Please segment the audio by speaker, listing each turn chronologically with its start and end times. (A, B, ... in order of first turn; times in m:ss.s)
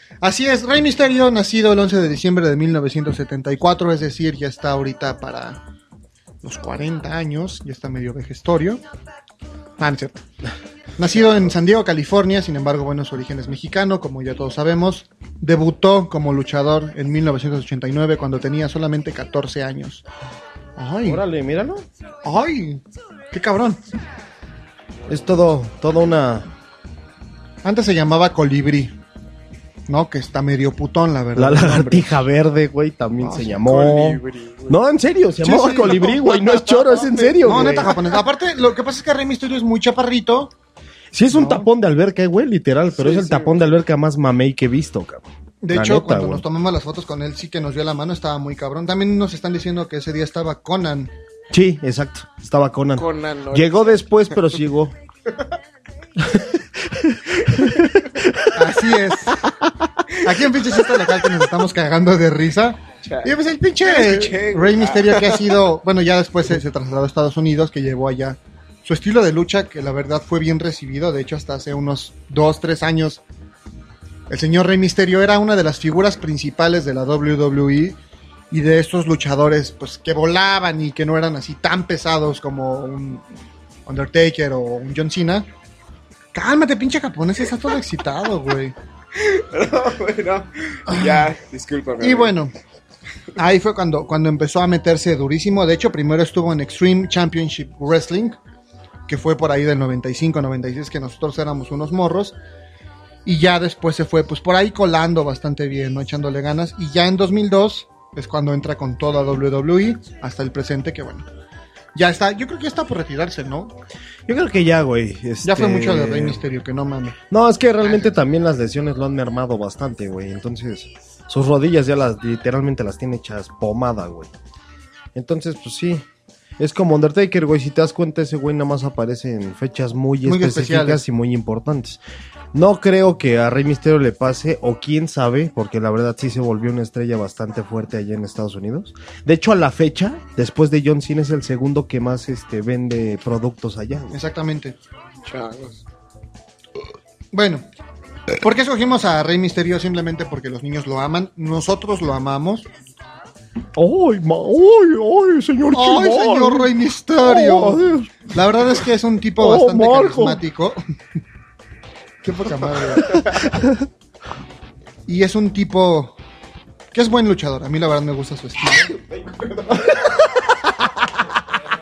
0:00.2-0:05.6 A
0:06.4-0:08.8 A
0:09.8-0:10.2 A
0:11.0-0:20.0 A
0:20.8-0:21.2 A
0:21.0-0:21.8 B
0:22.2-0:23.8 A
0:25.1-0:26.5 B
0:27.6-0:29.0 A
0:29.9-0:32.2 A
0:31.4-0:38.1 B
0:33.2-0:33.6 A
0:33.6-0:34.8 C
0:35.4-0:36.3 A
0:36.2-0:37.8 C
0:37.4-0:40.5 A
0:41.1-0:46.4 B
0:41.3-0:41.7 A
0:42.9-0:43.7 C
0:45.6-0:51.1 A
0:51.5-0:55.0 B
0:53.0-0:54.6 C
0:56.2-0:58.6 B
0:58.5-0:59.4 A
1:00.2-1:13.2 A
1:03.0-1:05.6 C
1:14.3-1:18.0 A
1:18.5-1:23.2 A
1:23.8-1:25.5 A
1:26.3-1:28.7 A
1:29.1-1:32.3 C
1:30.9-1:31.3 A
1:32.0-1:32.5 A
1:33.4-1:38.4 A
1:39.1-1:42.4 A
1:43.2-1:51.3 A
1:51.9-1:53.8 A
1:54.3-1:56.4 B
1:55.4-1:57.2 A
1:57.3-2:04.3 B
1:57.8-1:58.1 A
2:05.1-2:06.0 B
2:06.6-2:12.0 B
2:10.2-2:11.0 A
2:12.5-2:24.2 B
2:24.1-2:24.8 A
2:25.2-2:25.8 C
2:27.3-2:27.6 A
2:28.4-2:32.7 A
2:33.8-2:38.3 B
2:35.7-2:40.8 A
2:39.4-2:40.4 B
2:42.2-2:43.4 A
2:43.0-2:43.8 B
2:45.1-2:46.1 A
2:46.9-2:48.9 A
2:49.0-2:50.0 C
2:50.0-2:50.8 B